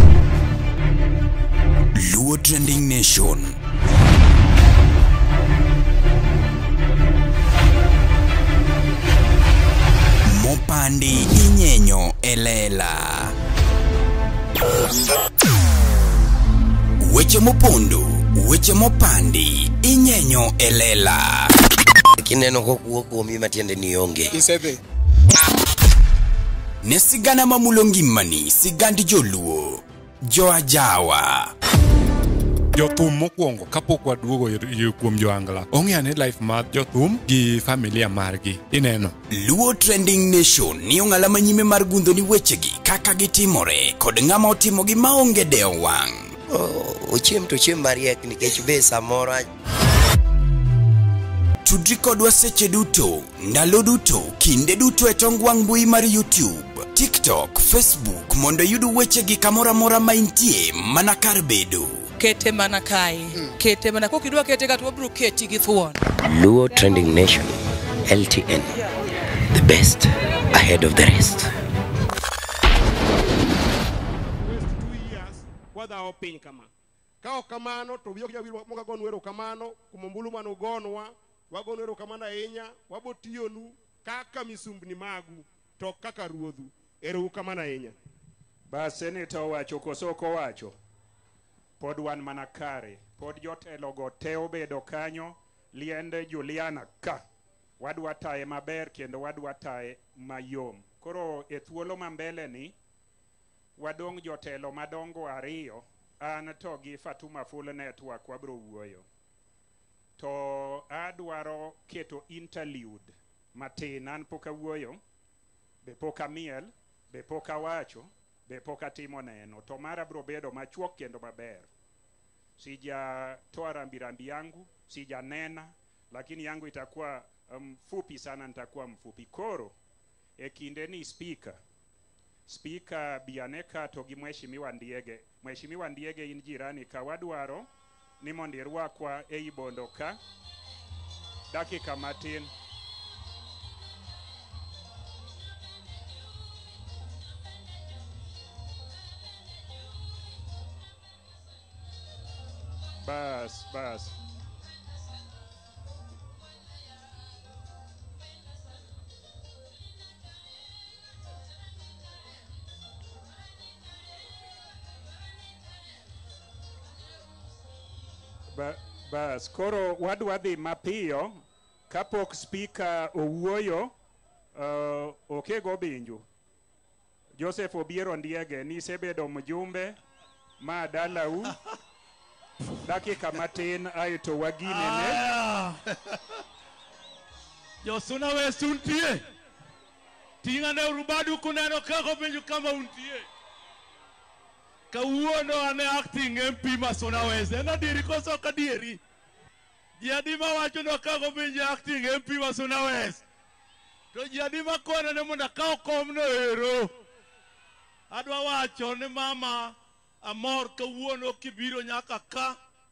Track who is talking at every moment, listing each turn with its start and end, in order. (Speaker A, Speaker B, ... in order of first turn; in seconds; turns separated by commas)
Speaker A: 1.9-3.6, Speaker A: 10.2-13.3, Speaker A: 17.0-21.5, Speaker B: 22.2-24.3, Speaker C: 24.3-24.8, Speaker A: 26.8-31.5, Speaker D: 32.7-39.1, Speaker A: 39.3-46.3, Speaker B: 46.5-49.5, Speaker A: 51.6-62.0, Speaker E: 62.2-66.0, Speaker B: 66.2-67.5, Speaker B: 68.0-68.8, Speaker B: 69.5-71.5, Speaker C: 74.2-76.7, Speaker C: 77.2-87.9, Speaker F: 88.7-90.8, Speaker F: 91.8-97.2, Speaker F: 97.8-102.7, Speaker F: 103.8-109.0, Speaker F: 110.2-115.0, Speaker F: 115.8-121.7, Speaker F: 122.6-129.7, Speaker F: 130.4-131.6, Speaker F: 132.5-137.7, Speaker F: 138.2-140.2, Speaker F: 141.5-142.5, Speaker F: 153.0-154.1, Speaker F: 168.5-173.9, Speaker F: 174.5-176.2, Speaker F: 177.4-180.0, Speaker F: 180.6-181.5, Speaker F: 182.8-185.2, Speaker G: 184.7-185.8, Speaker G: 187.8-189.2, Speaker G: 190.4-193.2, Speaker G: 194.9-199.0, Speaker G: 200.0-203.2, Speaker G: 204.1-206.9, Speaker G: 208.1-212.6